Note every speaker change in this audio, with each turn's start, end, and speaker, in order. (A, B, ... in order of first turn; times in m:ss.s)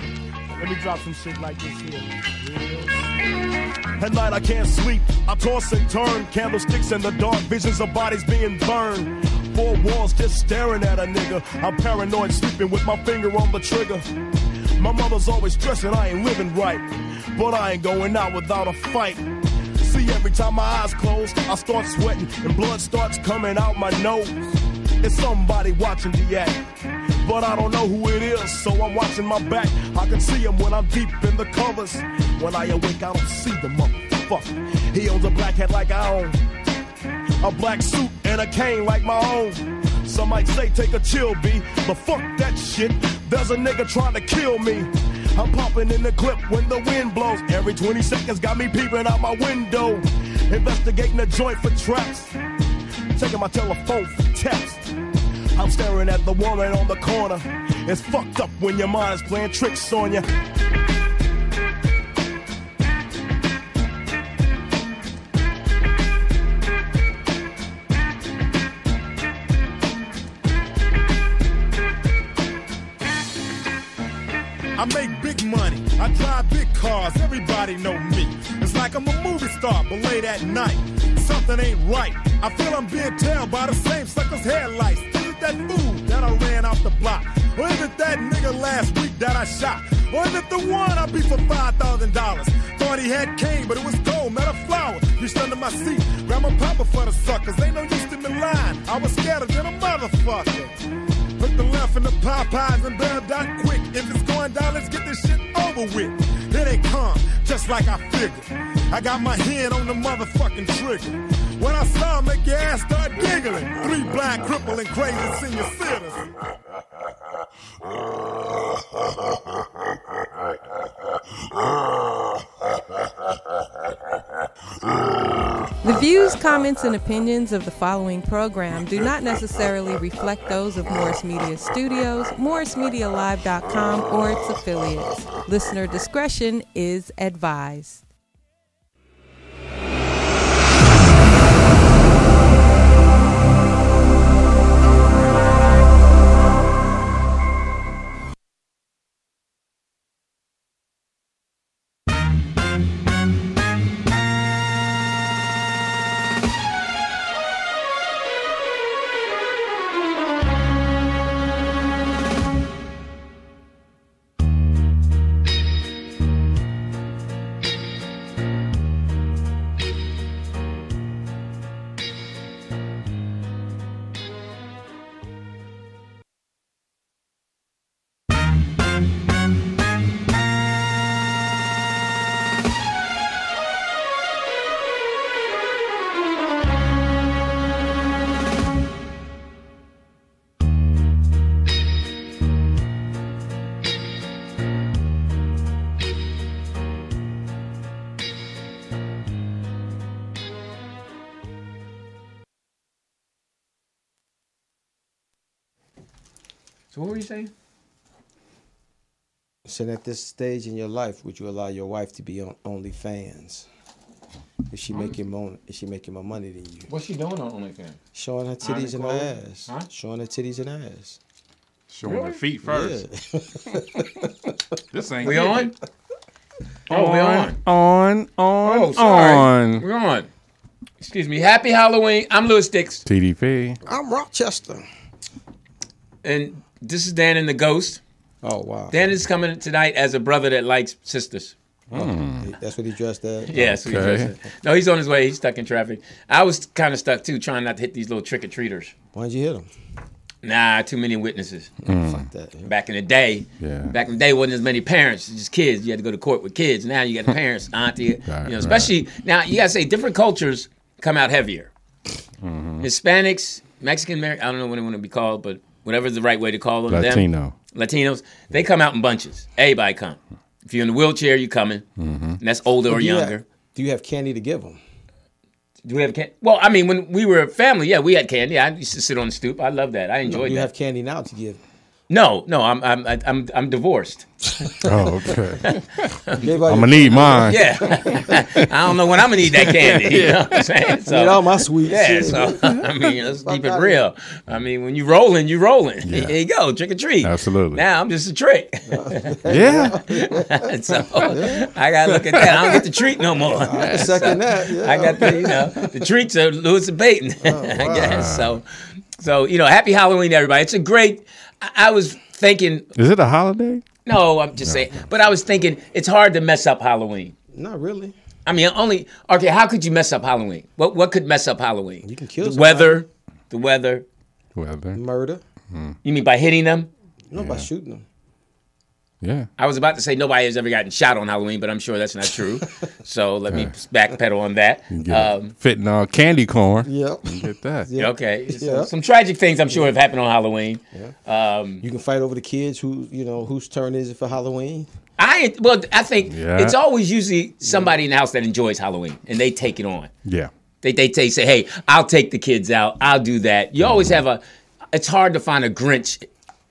0:00.5-0:03.2 A
0:04.0-0:14.1 A
0:14.8-0:19.2 A
0:19.8-0:24.4 A
0:25.0-0:26.6 A
0:27.2-0:36.4 A
0:37.4-0:52.4 A
0:53.1-0:54.9 A
0:55.6-1:00.3 A
1:14.8-1:40.8 B
1:41.4-1:56.3 B
2:05.8-2:18.0 C
3:26.9-3:27.5 D
3:29.7-3:33.7 E
3:34.7-3:36.9 E
3:36.9-3:38.0 D
3:38.1-3:41.2 E
3:38.6-3:39.9 D
3:41.9-3:43.0 F
3:42.0-3:42.4 D
3:42.6-3:44.6 E
3:44.9-3:45.7 F
3:45.2-3:45.7 D
3:46.9-3:47.6 D
3:46.9-3:49.8 F
3:48.6-3:50.3 D
3:51.0-3:53.0 D
3:53.0-3:53.8 F
3:53.8-3:54.8 E
3:56.2-3:58.0 D
3:58.4-3:59.0 E
3:58.9-4:01.5 D
4:01.9-4:03.6 E
4:01.9-4:02.5 F
4:03.5-4:08.9 D
4:03.6-4:04.3 F
4:09.1-4:09.7 E
4:10.4-4:11.8 D
4:11.9-4:12.3 F
4:11.9-4:12.7 E
4:12.7-4:21.7 D
4:13.6-4:13.9 F
4:18.3-4:18.9 F
4:22.4-4:22.9 F
4:22.8-4:31.8 D
4:26.9-4:27.5 F
4:32.0-4:32.4 F
4:32.4-4:33.4 D
4:32.9-4:34.8 E
4:35.8-4:40.7 D
4:40.2-4:41.6 E
4:42.1-4:44.2 D
4:44.6-4:45.3 E
4:44.8-4:46.1 F
4:45.7-4:46.4 D
4:46.4-4:48.3 E
4:46.7-4:48.6 F
4:47.5-4:59.5 D
4:49.5-4:51.0 F
4:51.1-4:54.0 E
4:52.5-4:52.8 F
4:56.0-4:56.4 F
4:57.2-4:57.8 F
4:58.9-5:01.7 E
4:59.5-5:00.0 F
5:00.1-5:08.6 D
5:02.2-5:02.8 F
5:03.4-5:05.8 E
5:03.7-5:04.4 F
5:07.4-5:08.3 E
5:07.9-5:08.6 F
5:09.2-5:12.9 D
5:13.0-5:13.8 F
5:14.1-5:17.3 D
5:17.5-5:18.2 E
5:18.5-5:24.0 D
5:22.0-5:23.0 E
5:24.6-5:25.0 F
5:24.9-5:25.4 E
5:25.7-5:26.0 F
5:26.0-5:26.9 D
5:27.3-5:28.0 E
5:27.3-5:27.7 F
5:29.2-5:29.5 F
5:29.6-5:35.5 D
5:34.9-5:37.9 F
5:36.8-5:38.9 E
5:38.0-5:41.8 D
5:41.8-5:44.9 E
5:45.2-5:50.1 D
5:46.3-5:46.8 F
5:47.6-5:48.0 E
5:50.2-5:50.5 F
5:50.8-5:54.4 D
5:54.9-5:56.3 D